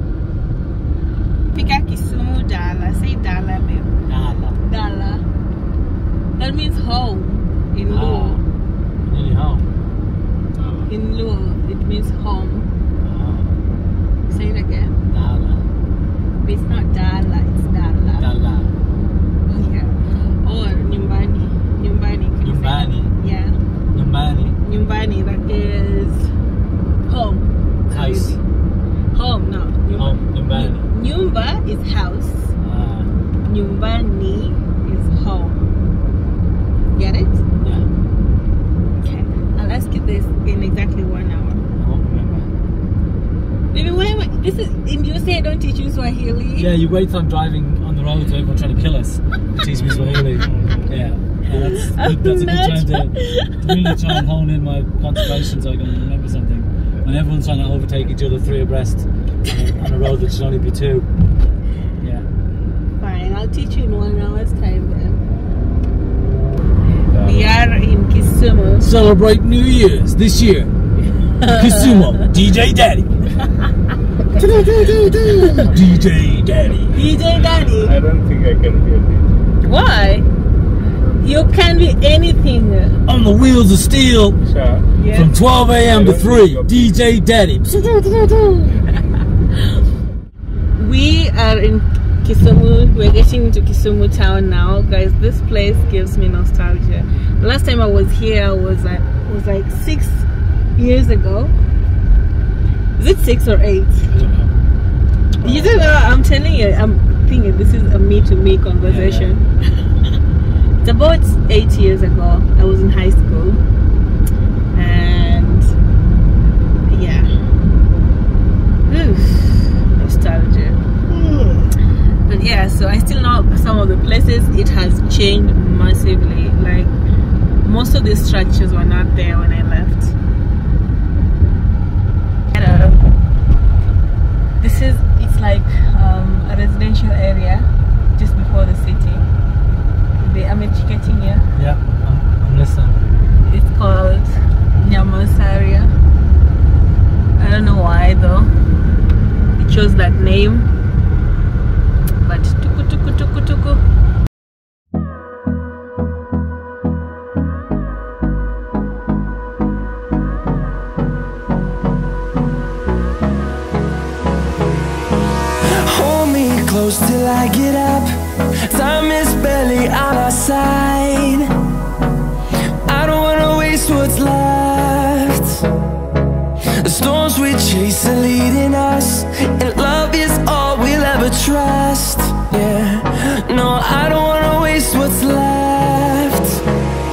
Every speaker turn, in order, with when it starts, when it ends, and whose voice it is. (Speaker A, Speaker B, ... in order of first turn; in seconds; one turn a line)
Speaker A: 1.5-3.9
Speaker B: 4.1-4.6
Speaker A: 4.7-5.2
Speaker A: 6.4-8.4
Speaker B: 7.9-8.4
Speaker B: 9.0-9.7
Speaker C: 10.5-10.9
Speaker A: 10.9-12.7
Speaker B: 13.0-13.5
Speaker A: 14.3-14.9
Speaker B: 15.1-15.7
Speaker A: 16.4-18.3
Speaker B: 18.2-18.7
Speaker A: 19.4-23.6
Speaker B: 22.4-23.1
Speaker B: 23.9-24.6
Speaker A: 24.6-26.3
Speaker A: 27.1-28.4
Speaker B: 27.9-28.4
Speaker A: 29.1-32.5
Speaker B: 29.9-30.9
Speaker B: 32.6-33.1
Speaker A: 33.4-35.6
Speaker A: 36.9-37.4
Speaker B: 37.6-37.9
Speaker A: 39.0-41.6
Speaker B: 41.8-42.5
Speaker A: 43.7-46.7
Speaker B: 46.6-61.1
Speaker C: 49.7-51.0
Speaker A: 51.6-54.1
Speaker B: 62.0-62.3
Speaker A: 63.0-65.2
Speaker C: 67.1-67.5
Speaker A: 67.2-68.9
Speaker B: 68.8-70.7
Speaker A: 71.4-72.3
Speaker B: 71.4-73.3
Speaker B: 74.3-77.0
Speaker A: 76.9-78.0
Speaker C: 77.3-79.2
Speaker A: 79.6-80.3
Speaker C: 81.0-81.5
Speaker A: 81.2-83.0
Speaker B: 83.0-84.4
Speaker C: 84.4-84.9
Speaker A: 85.0-85.3
Speaker B: 85.1-88.7
Speaker C: 85.7-87.0
Speaker A: 90.8-101.5
Speaker A: 103.0-104.1
Speaker B: 104.1-104.5
Speaker A: 105.4-109.5
Speaker B: 105.5-105.7
Speaker B: 108.8-109.3
Speaker A: 110.8-113.6
Speaker A: 114.7-115.7
Speaker A: 116.9-117.3
Speaker A: 118.9-120.8
Speaker A: 122.2-126.9
Speaker A: 127.6-130.2
Speaker A: 132.5-133.1
Speaker A: 134.6-139.3
Speaker A: 140.2-141.5
Speaker B: 141.6-143.0
Speaker A: 143.4-145.9
Speaker A: 147.4-148.5
Speaker A: 149.6-150.7
Speaker A: 152.2-153.8
Speaker D: 165.6-171.5
Speaker D: 172.9-175.6
Speaker D: 176.8-186.6